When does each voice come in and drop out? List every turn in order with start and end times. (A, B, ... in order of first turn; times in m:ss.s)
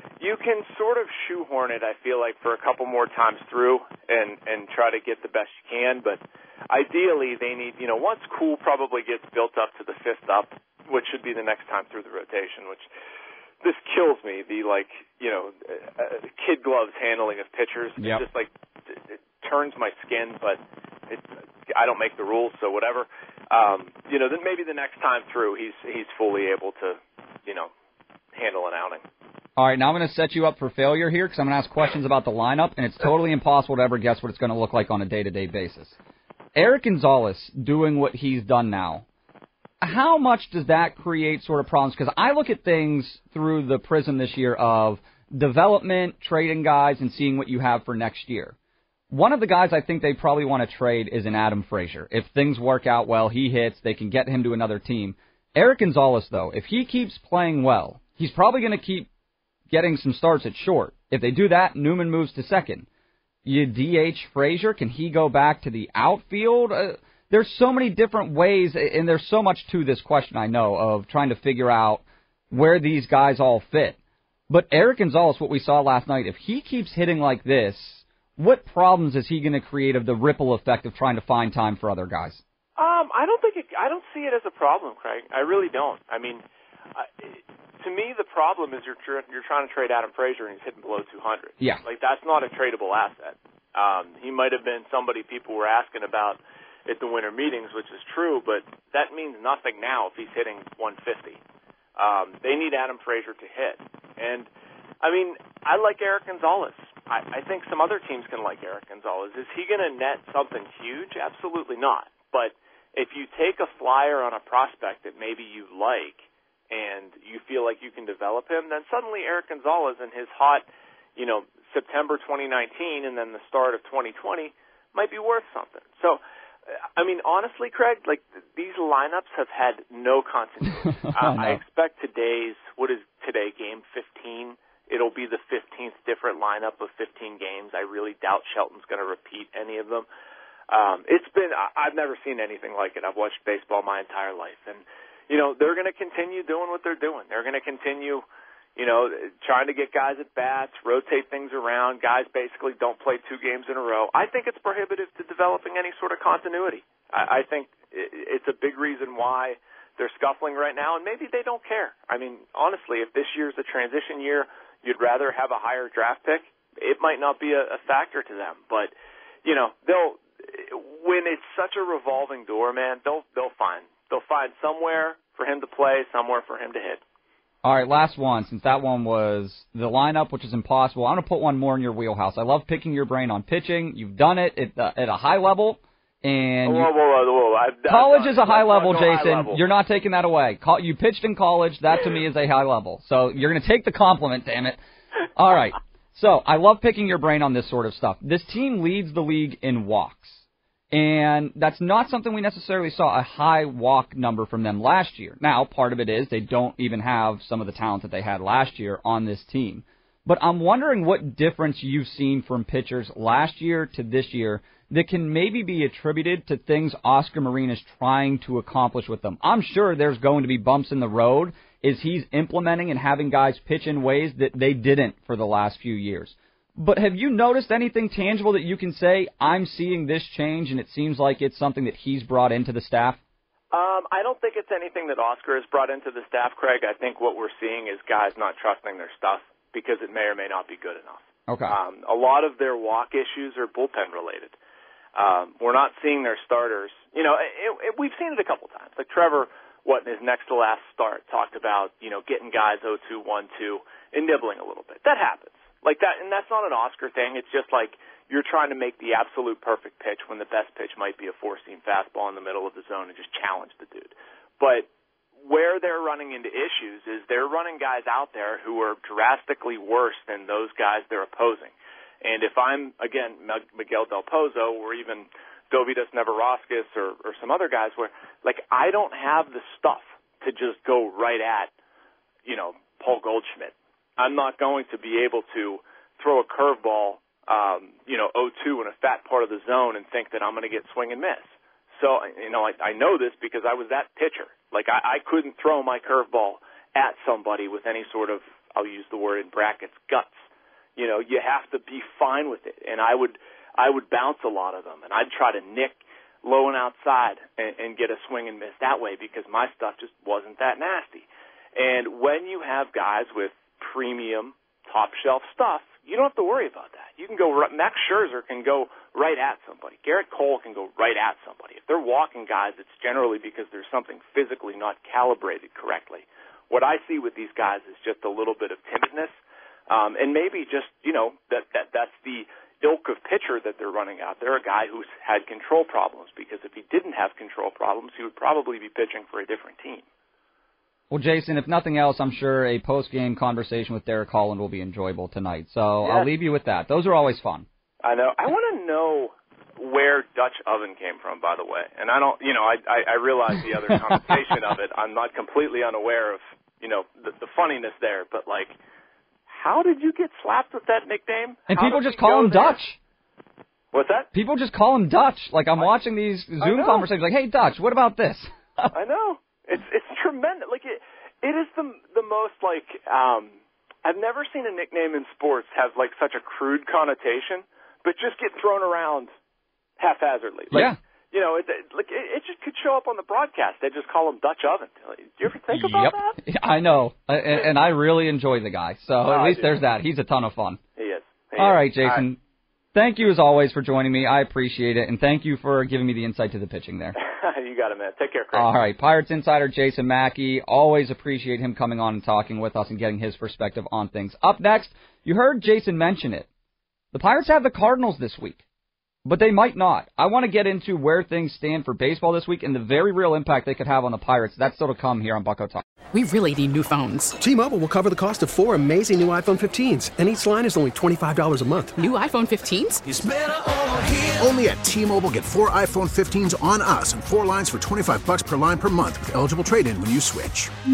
0:00.2-0:12.9 A
0:13.6-0:27.7 A
0:18.0-0:18.2 B
0:28.3-0:29.0 A
0:29.6-0:36.0 B
0:36.6-0:39.0 B
0:39.8-0:48.6 B
0:49.1-0:59.1 B
0:59.7-1:02.9 B
1:03.4-1:14.0 B
1:14.5-1:22.4 B
1:22.8-1:41.4 A
1:42.0-1:44.5 A
1:45.0-2:06.2 A
2:07.0-2:20.1 A
2:11.1-2:11.6 B
2:20.7-2:48.9 A
2:49.4-2:57.0 A
2:57.6-3:06.9 B
3:06.6-3:09.6 A
3:07.9-3:14.8 B
3:15.4-3:53.2 B
3:53.7-4:04.6 A
4:01.5-4:01.8 B
4:05.2-4:24.9 A
4:25.4-4:41.7 A
4:42.4-5:00.4 A
5:01.0-5:29.3 A
5:29.9-5:40.0 A
5:41.1-5:47.7 B
5:46.0-5:46.3 A
5:48.0-5:58.8 A
5:59.5-6:02.8 A
6:01.7-6:03.0 B
6:03.9-6:04.3 A
6:04.3-6:08.9 B
6:06.6-6:07.1 A
6:08.9-6:19.3 A
6:20.0-6:26.4 A
6:20.7-6:21.0 B
6:25.7-6:30.8 B
6:29.3-6:29.8 A
6:31.0-6:32.2 A
6:31.6-6:32.4 B
6:32.9-6:37.2 B
6:37.2-6:38.7 A
6:38.5-6:46.5 B
6:47.1-6:48.6 B
6:49.2-6:55.8 B
6:56.2-6:57.3 C
6:57.4-7:02.0 D
7:02.0-7:03.0 C
7:03.0-7:10.7 E